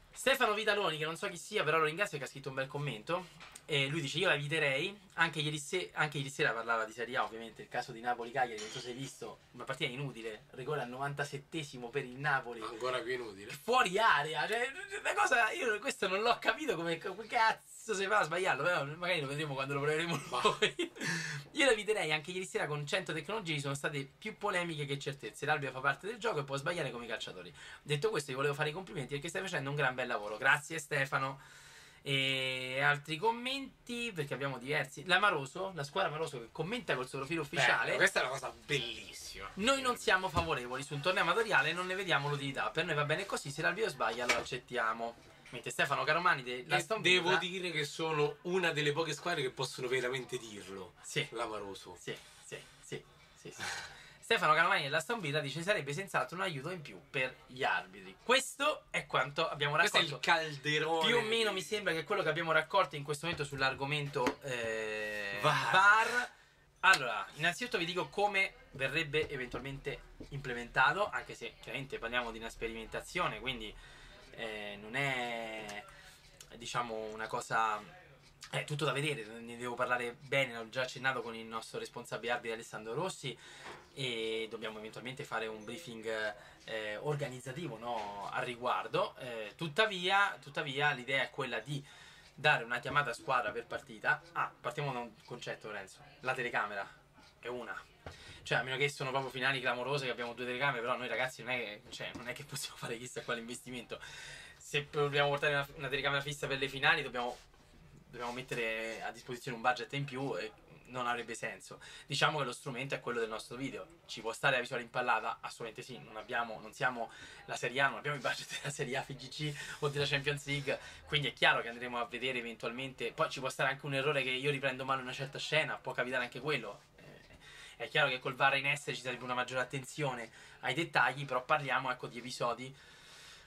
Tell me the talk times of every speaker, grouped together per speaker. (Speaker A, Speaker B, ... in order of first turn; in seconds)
Speaker A: 0.1-12.8, 13.5-31.4, 32.0-38.0, 39.6-47.5, 51.0-51.3, 52.0-60.2, 61.0-73.8, 74.3-75.9, 76.5-77.9, 78.5-83.4, 84.0-91.9, 92.4-97.9, 98.4-104.0, 104.6-107.4, 108.1-132.8
Speaker B: 12.6-13.6, 37.5-40.0, 46.7-52.0, 59.8-61.8, 65.3-66.2